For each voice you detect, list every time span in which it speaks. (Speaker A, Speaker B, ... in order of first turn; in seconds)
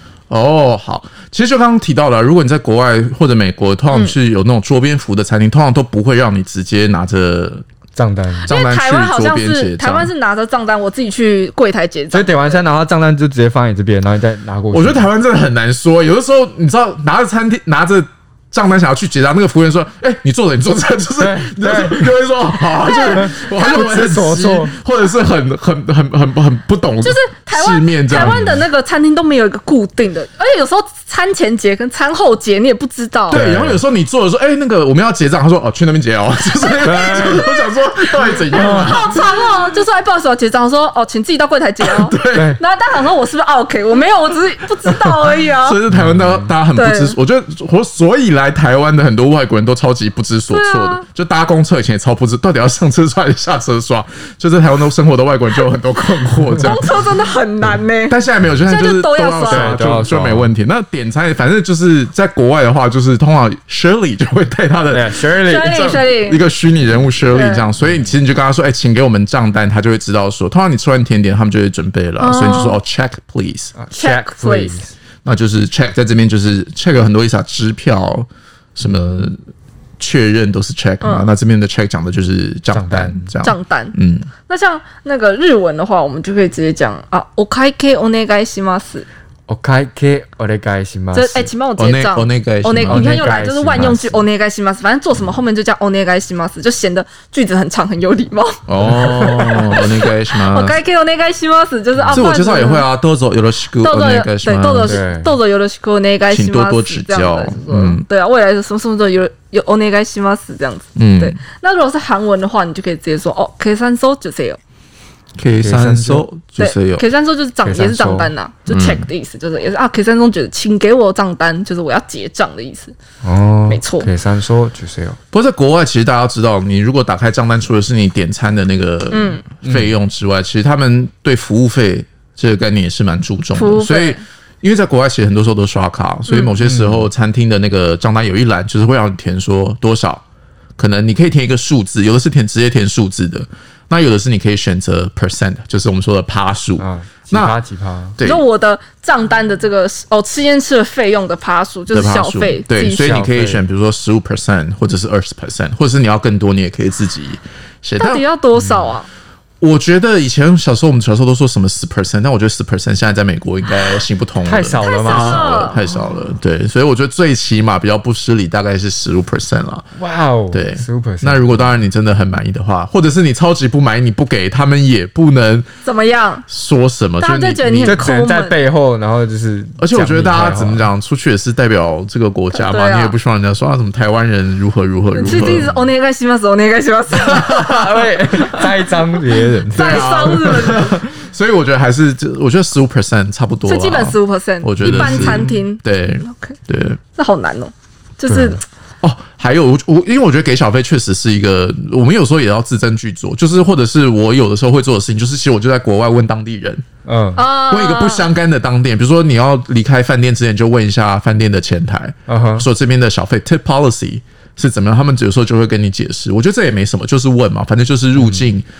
Speaker A: 0.3-7.6, 8.4-10.1, 14.7-28.6, 33.3-39.2, 41.8-42.6, 45.0-57.0, 58.1-73.8, 75.2-79.4, 80.0-84.4, 91.8-94.0, 98.7-100.8, 102.1-105.0, 106.3-108.0, 111.0-111.4, 115.4-117.1, 118.6-119.1, 125.3-140.2, 140.8-147.6, 148.2-148.4, 151.9-158.2, 159.6-169.9, 170.5-175.7, 176.5-178.1, 179.8-185.8, 187.2-188.7, 189.7-197.0, 199.0-206.8, 207.5-218.7
Speaker B: 8.0-8.5, 12.1-15.1, 21.2-22.1, 23.1-24.7, 28.1-28.6, 33.3-33.8, 36.8-37.4, 38.5-39.0, 42.3-42.6, 45.9-46.5, 59.4-60.5, 64.9-65.8, 73.8-74.9, 78.8-79.2, 82.7-83.3, 89.5-91.5, 92.8-94.2, 98.8-99.5, 102.0-102.3, 104.8-105.4, 115.6-116.3, 117.6-118.3, 123.2-125.2, 129.6-129.9, 136.6-137.1, 146.8-148.2, 153.0-153.6, 158.6-158.9, 164.4-165.7, 169.9-171.7, 177.8-180.9, 185.3-185.9, 187.4-190.9, 194.8-195.5, 198.3-198.6, 207.1-207.5, 212.3-212.7
Speaker C: 8.5-12.6, 27.0-33.4, 36.6-37.7, 38.8-45.8, 46.7-47.1, 50.5-51.0, 56.7-58.1, 58.7-59.7, 65.5-66.4, 67.3-67.7, 72.2-72.8, 73.9-74.8, 81.0-81.3, 83.4-89.1, 91.1-98.6, 99.7-102.9, 103.8-114.6, 116.6-122.9, 123.7-124.1, 129.1-129.5, 133.6-134.2, 148.2-153.0, 158.0-159.1, 164.9-165.8, 175.8-176.4, 177.2-178.6, 182.5-183.1, 185.1-187.4, 189.8-190.9, 193.7-196.6, 197.1-198.6, 207.3-208.3